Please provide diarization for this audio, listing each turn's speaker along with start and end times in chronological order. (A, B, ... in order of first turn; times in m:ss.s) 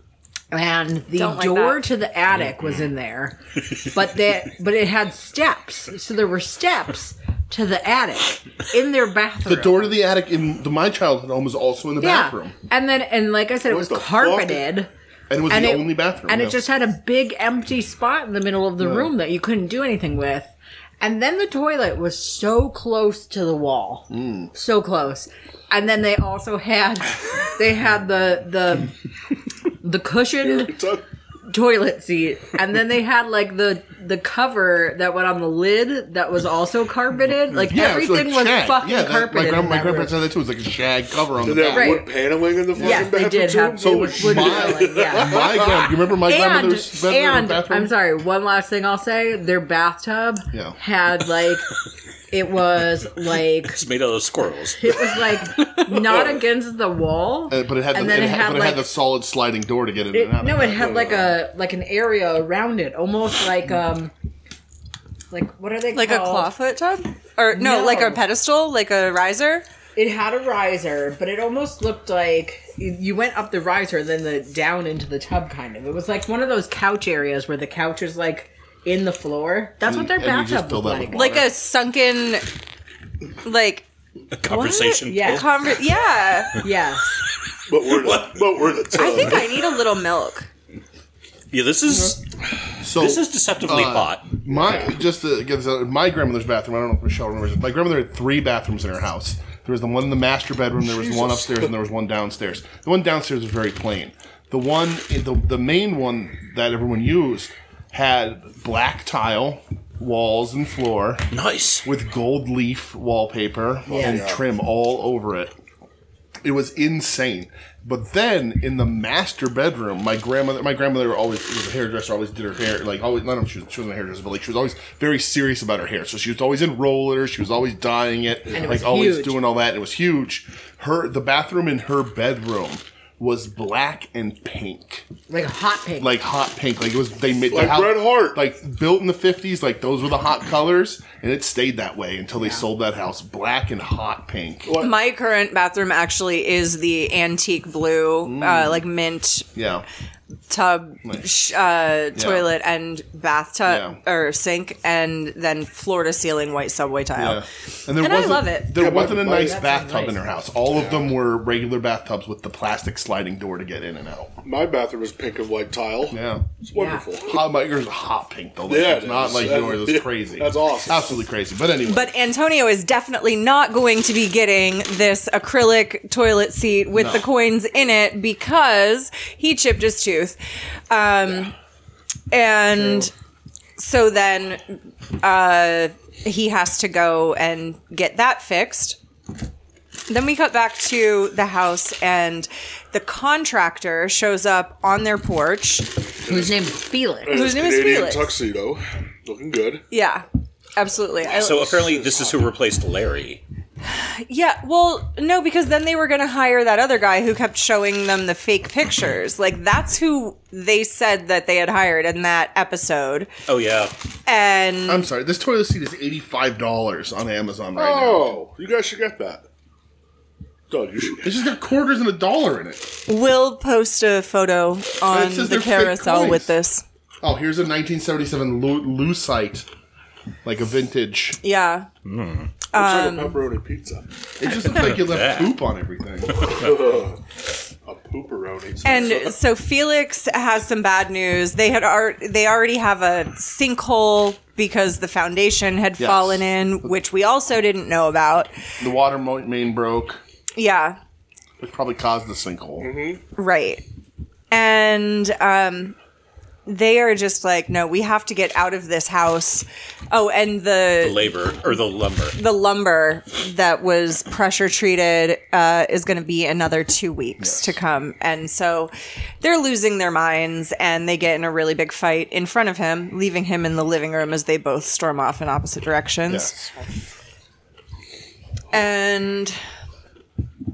0:00.5-0:10.0 A
0:01.2-0:01.8 B
0:09.5-0:12.6 C
0:12.0-0:14.9 A
0:13.7-0:14.6 D
0:15.3-0:16.6 C
0:15.5-0:29.0 A
0:18.8-0:19.1 C
0:24.1-0:24.5 C
0:29.8-0:30.8 A
0:30.4-0:31.0 D
0:31.5-0:40.2 A
0:37.7-0:42.0 C
0:41.4-0:45.9 D
0:41.7-0:42.1 A
0:42.8-0:43.1 C
0:42.8-0:51.7 A
0:43.8-0:47.9 C
0:52.3-0:53.8 A
0:53.7-0:55.1 E
0:54.8-0:58.9 A
0:56.0-0:56.4 D
0:57.5-1:01.3 C
1:00.1-1:04.1 A
1:00.8-1:01.1 D
1:05.3-1:06.5 A
1:05.9-1:09.6 B
1:07.5-1:08.2 A
1:10.0-1:21.4 A
1:19.8-1:21.5 C
1:21.1-1:22.5 B
1:23.4-1:23.8 B
1:24.4-1:25.8 E
1:24.5-1:26.6 B
1:25.1-1:25.5 A
1:26.6-1:27.2 A
1:27.7-1:29.6 D
1:27.9-1:28.8 E
1:28.9-1:30.5 B
1:31.5-1:32.2 E
1:31.9-1:32.2 C
1:32.8-1:51.3 C
1:32.9-1:34.3 E
1:34.5-1:35.0 D
1:40.8-1:41.7 D
1:51.3-1:51.9 E
1:51.8-1:55.5 C
1:53.9-1:54.4 D
1:53.9-1:54.3 A
1:56.4-2:15.1 C
2:08.5-2:09.4 A
2:15.3-2:16.1 A
2:16.0-2:24.8 C
2:17.5-2:18.4 D
2:22.4-2:22.6 A
2:24.7-2:25.0 D
2:24.8-2:29.5 B
2:28.2-2:28.8 C
2:29.6-2:29.9 C
2:30.5-2:37.4 B
2:32.2-2:32.5 C
2:33.7-2:34.0 C
2:37.2-2:44.3 C
2:38.0-2:38.8 B
2:38.8-2:39.6 D
2:39.2-2:40.2 A
2:40.7-2:41.1 D
2:44.4-2:47.4 D
2:46.1-2:46.5 C
2:46.7-2:47.0 A
2:47.2-2:52.1 C
2:48.7-2:51.2 D
2:51.9-3:00.4 B
2:57.0-2:57.2 C
3:00.9-3:01.6 B
3:02.3-3:03.1 B
3:03.8-3:09.0 B
3:10.1-3:16.0 B
3:16.2-3:17.4 A
3:16.3-3:16.6 D
3:17.2-3:19.8 D
3:17.3-3:18.3 B
3:19.9-3:20.2 B
3:20.8-3:22.0 B
3:21.3-3:23.4 E
3:21.4-3:22.4 D
3:23.8-3:33.3 B
3:33.5-3:33.9 E
3:34.3-3:35.1 B
3:34.9-3:38.4 C
3:37.8-3:39.4 D
3:40.7-3:41.4 D
3:41.2-3:42.9 C
3:43.1-3:46.8 B
3:45.1-3:46.5 C
3:47.2-3:49.7 C
3:50.4-3:51.4 C
3:51.4-3:51.9 B
3:52.0-3:52.5 E
3:52.7-3:53.4 B
3:52.7-3:54.1 D
3:54.4-3:56.7 C
3:54.7-3:55.6 E
3:56.3-3:56.7 E
3:56.5-3:57.2 D
3:57.8-3:59.4 D
3:58.8-4:08.5 B
4:06.0-4:06.4 C
4:08.8-4:10.2 C
4:10.6-4:11.0 B
4:11.6-4:12.9 C
4:12.8-4:13.2 D
4:13.4-4:13.8 B
4:14.5-4:16.0 B
4:16.7-4:21.3 B
4:21.0-4:22.4 E
4:22.4-4:36.6 B
4:27.4-4:27.7 C
4:36.3-4:36.7 C
4:38.7-4:39.6 B